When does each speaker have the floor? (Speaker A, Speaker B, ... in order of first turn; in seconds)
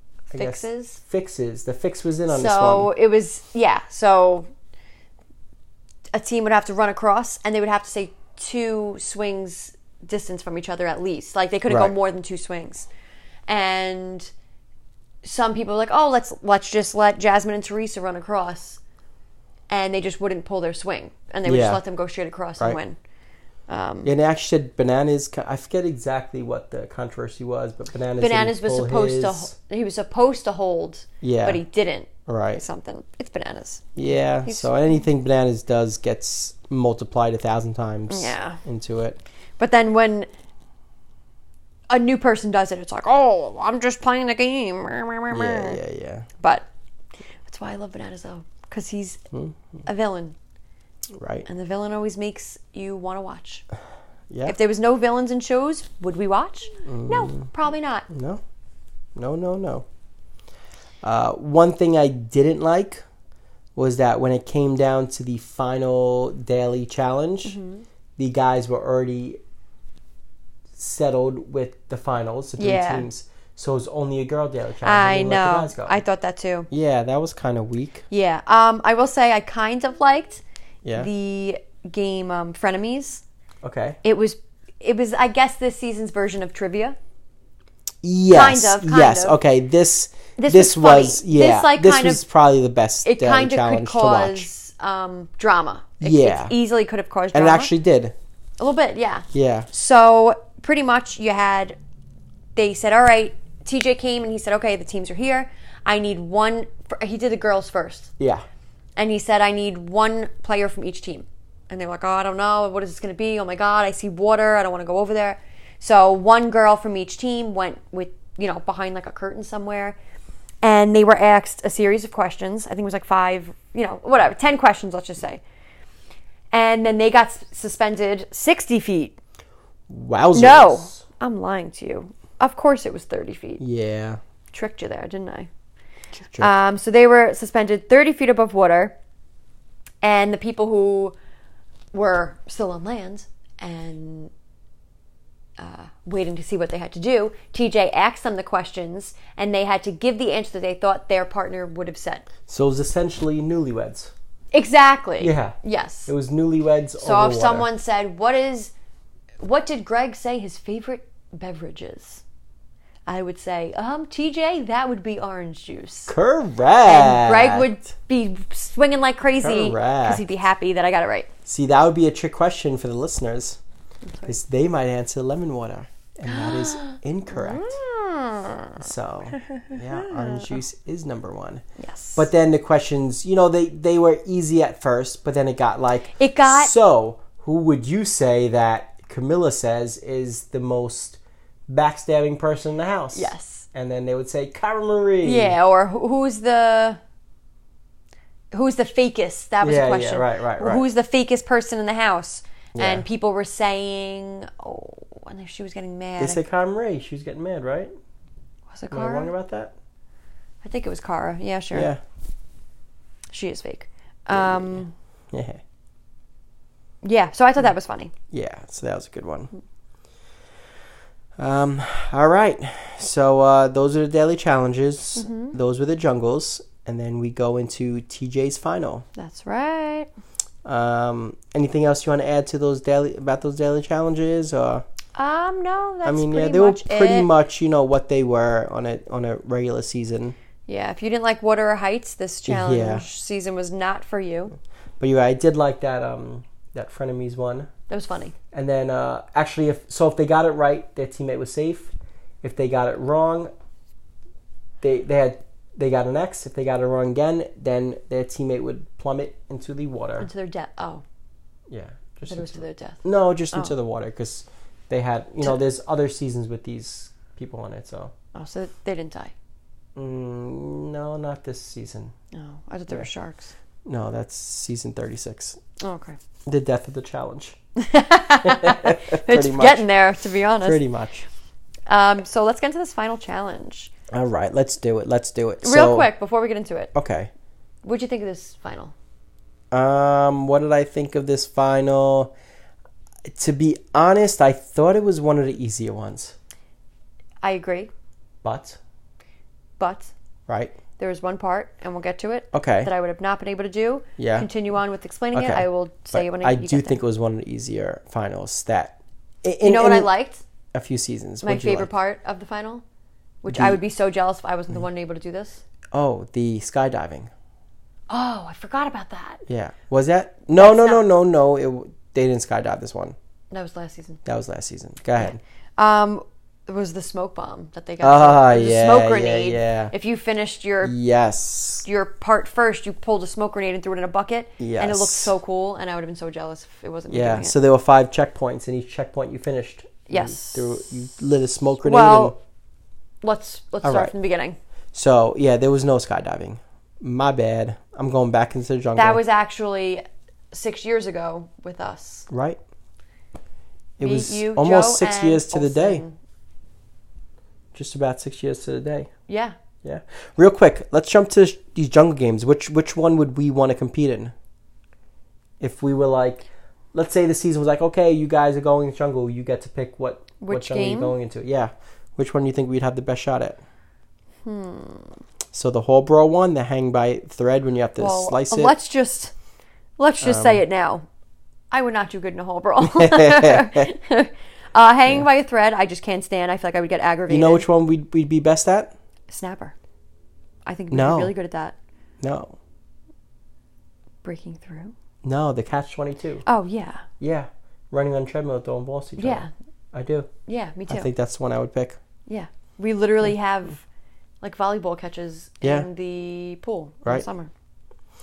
Speaker A: 0.3-2.9, 11.7-11.9, 21.5-21.8, 24.0-29.5, 31.2-31.6, 32.3-32.6, 34.0-39.2, 45.3-46.3, 49.3-49.8, 51.2-51.5, 54.3-54.6, 56.9-57.5, 58.1-58.4, 59.2-59.9, 61.0-63.0, 63.8-67.6, 68.2-69.4, 70.8-76.0, 76.7-78.1, 83.6-84.0, 88.0-94.5, 96.0-96.5, 97.3-98.2, 99.3-99.7, 108.2-108.4, 129.9-131.0, 133.6-134.2, 136.2-136.5, 152.5-154.1, 155.2-157.7, 166.1-167.7, 169.4-170.2, 171.5-173.6, 174.3-177.8, 178.8-181.6, 182.2-195.6, 199.6-200.9, 202.8-203.1, 206.2-207.9, 208.9-209.7, 211.7-212.0, 214.3-214.8, 215.3-215.6, 218.3-219.5, 221.4-229.1, 230.7-234.8, 236.1-240.3, 242.5-243.1, 245.0-247.7, 248.5-251.9, 252.4-253.5, 254.8-260.3, 261.7-268.1, 270.0-272.1, 273.9-275.6, 276.5-277.6, 278.4-279.9, 280.6-281.3, 284.1-286.1, 286.9-287.3, 289.7-292.3, 293.3-296.4, 298.4-298.8, 300.5-300.7, 302.5-302.9, 304.2-304.5, 305.3-310.1, 310.7-311.9, 313.5-313.8, 315.9-317.3, 319.5-323.1, 324.2-325.4, 328.0-329.9, 330.8-331.9, 334.6-335.3, 337.1-342.4, 343.8-344.1, 344.9-349.2, 352.3-352.6, 354.0-356.0, 357.7-359.1, 359.8-364.3, 365.6-373.6, 375.5-378.7, 380.2-380.6, 382.8-383.9, 387.3-388.9, 390.9-391.3, 392.2-392.6, 395.2-396.4, 397.2-400.3, 400.9-402.0, 405.6-405.9
Speaker B: 0.4-1.0, 2.3-4.5, 6.1-12.9, 13.5-14.3, 15.2-18.8, 19.7-23.0, 23.7-24.1, 28.2-35.0, 38.1-38.6, 39.6-40.3, 41.9-45.8, 46.4-46.7, 47.5-49.2, 49.9-50.4, 51.5-53.6, 54.5-58.1, 67.5-67.8, 72.6-73.1, 74.8-76.7, 78.1-80.4, 81.0-83.2, 84.0-87.0, 88.3-89.4, 90.4-92.2, 93.0-97.7, 98.6-101.8, 102.5-108.1, 109.0-120.0, 120.6-125.4, 126.5-129.2, 130.3-133.6, 134.5-135.5, 136.4-138.9, 140.0-141.2, 141.9-144.3, 145.6-152.3, 154.5-156.1, 157.0-158.7, 159.4-162.2, 163.1-166.1, 166.8-171.3, 176.3-178.8, 179.5-180.6, 181.8-182.3, 186.2-186.7, 193.1-193.7, 195.2-197.0, 198.5-206.4, 208.7-209.3, 210.6-211.9, 213.3-214.9, 217.0-218.1, 225.2-225.6, 229.2-230.1, 235.2-237.3, 240.7-244.5, 247.9-248.3, 260.2-261.0, 262.3-263.0, 268.3-269.3, 272.3-273.5, 275.8-276.2, 277.8-280.8, 281.9-283.9, 285.6-286.9, 287.8-288.9, 297.4-297.9, 299.8-300.1, 301.0-307.0, 309.6-310.4, 311.4-312.8, 313.4-315.6, 318.1-319.4, 320.6-321.0, 323.5-324.2, 325.2-330.9, 331.9-337.6, 340.1-340.7, 341.8-342.4, 343.2-344.6, 348.9-352.3, 354.0-356.2, 359.3-359.6, 370.4-371.1, 374.4-375.2, 378.0-379.3, 380.0-381.1, 381.7-387.6, 389.3-389.8, 390.6-391.8, 394.2-394.9, 396.5-397.1, 399.2-399.5, 400.5-401.1, 402.3-403.8, 404.4-407.5